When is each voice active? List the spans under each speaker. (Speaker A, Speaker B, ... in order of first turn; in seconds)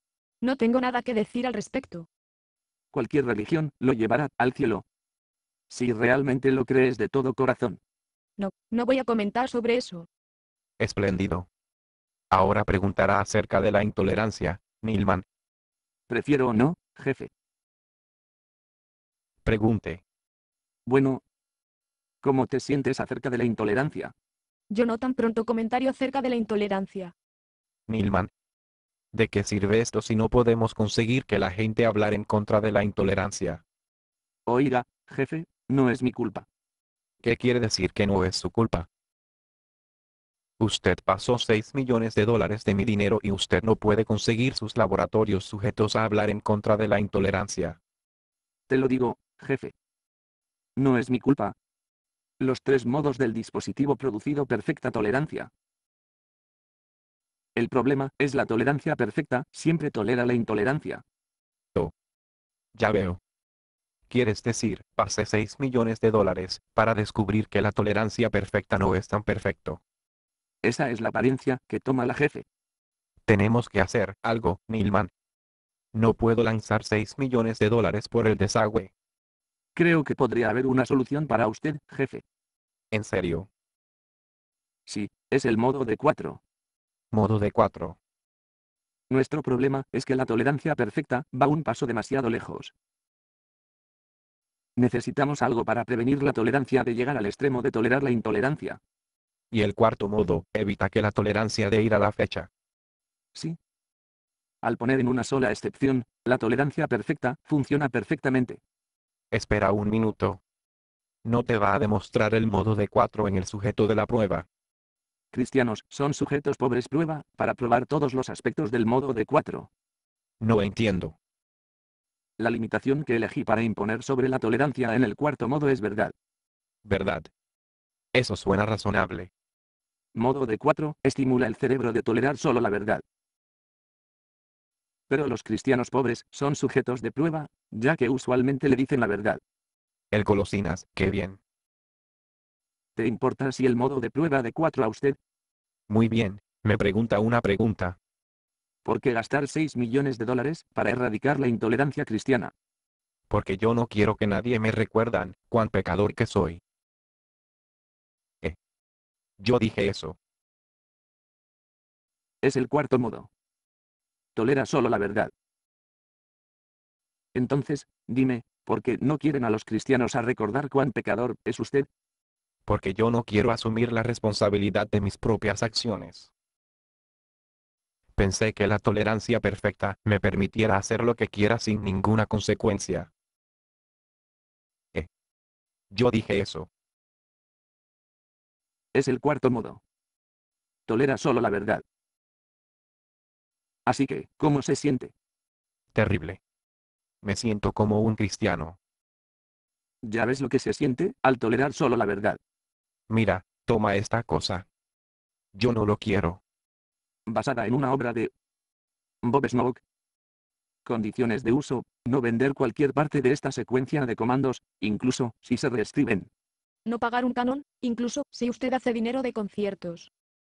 Speaker A: 0.4-2.1, 8.4-10.1, 24.7-27.1, 216.9-220.1
Speaker B: 2.9-4.8, 5.7-7.8, 16.1-17.3, 20.9-21.2, 22.2-24.1, 34.5-36.5, 48.7-49.7, 50.8-51.5, 52.4-55.5, 57.6-61.0, 70.6-72.5, 79.8-82.2, 84.9-86.4, 89.1-92.7, 94.8-98.8, 104.6-108.6, 115.3-119.7, 122.4-126.1, 130.1-133.0, 135.1-139.4, 143.0-145.2, 148.8-152.5, 162.4-163.3, 164.3-165.3, 167.3-171.9, 188.9-189.8, 190.9-191.8, 193.9-195.1, 200.0-202.4, 207.3-208.3, 209.2-209.8, 210.8-216.3
Speaker C: 10.8-11.5, 12.3-15.2, 19.4-20.0, 27.9-28.3, 29.1-33.6, 37.2-38.9, 40.6-47.8, 62.8-63.2, 64.1-69.8, 73.3-75.1, 75.9-78.9, 82.9-83.5, 87.1-88.0, 99.5-102.5, 109.3-110.4, 111.2-114.5, 120.4-121.2, 126.8-127.3, 128.1-129.3, 140.1-141.4, 145.9-148.0, 153.3-156.6, 159.4-160.2, 172.7-176.3, 178.2-183.1, 185.9-186.7, 195.9-196.4, 197.2-198.8, 203.1-204.7, 205.5-206.4